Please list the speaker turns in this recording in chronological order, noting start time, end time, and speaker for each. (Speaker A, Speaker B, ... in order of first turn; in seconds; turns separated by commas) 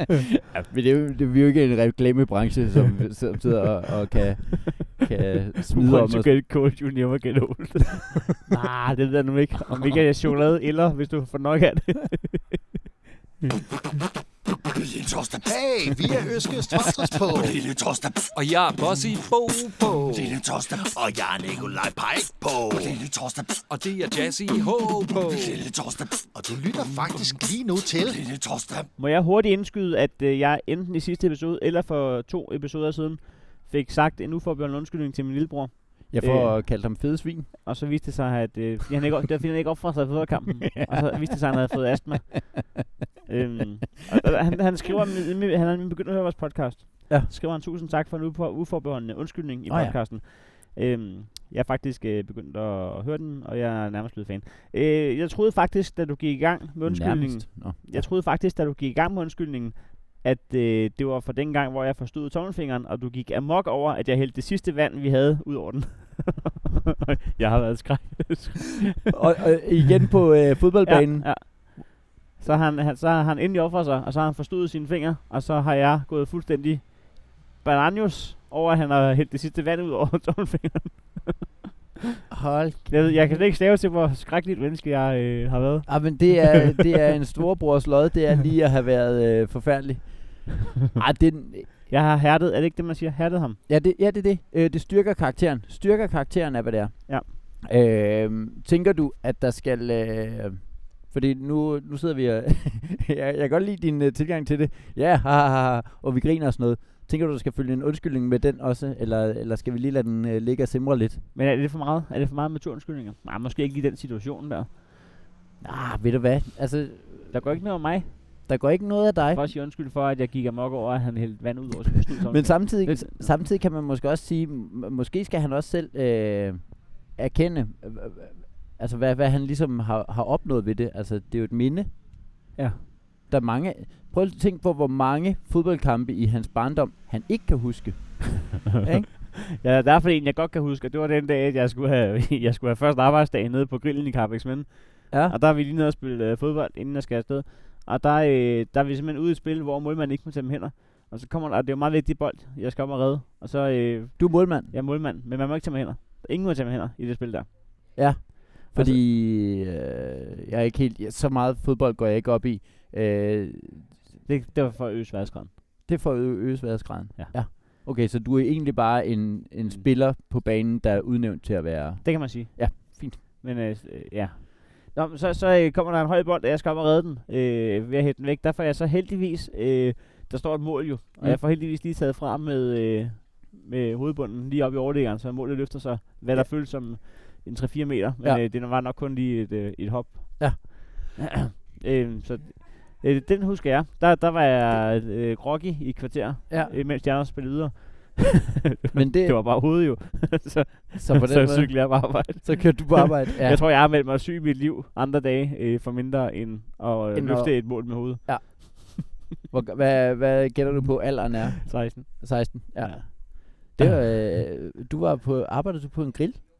Speaker A: 0.5-6.3, Speaker B: 5.7-12.7, Speaker C: 14.7-18.3, Speaker D: 18.3-20.3, Speaker C: 20.1-23.6, Speaker D: 23.7-25.6, Speaker C: 25.2-28.9, Speaker B: 29.0-36.9, Speaker A: 36.1-37.5, Speaker B: 37.6-69.1, Speaker A: 40.8-41.1, Speaker A: 49.7-50.0, Speaker A: 56.8-58.1, Speaker A: 69.1-71.3, Speaker B: 70.8-81.5, Speaker A: 82.3-83.3, Speaker B: 82.9-86.8, Speaker A: 85.9-91.7, Speaker B: 91.9-93.6, Speaker A: 93.7-111.2, Speaker B: 111.3-114.7, Speaker A: 115.6-117.6, Speaker B: 117.3-118.5, Speaker A: 118.2-119.4, Speaker B: 119.3-123.3, Speaker A: 122.3-132.0, Speaker B: 132.5-132.8, Speaker A: 133.3-139.1, Speaker B: 139.1-158.1, Speaker A: 145.1-145.3, Speaker A: 154.2-154.7, Speaker A: 157.9-164.0, Speaker B: 158.7-159.0, Speaker B: 164.2-165.5, Speaker A: 165.8-173.2, Speaker B: 172.0-209.0, Speaker A: 196.5-196.7, Speaker A: 198.9-199.4, Speaker A: 200.9-203.6, Speaker A: 207.1-216.4, Speaker B: 211.6-213.2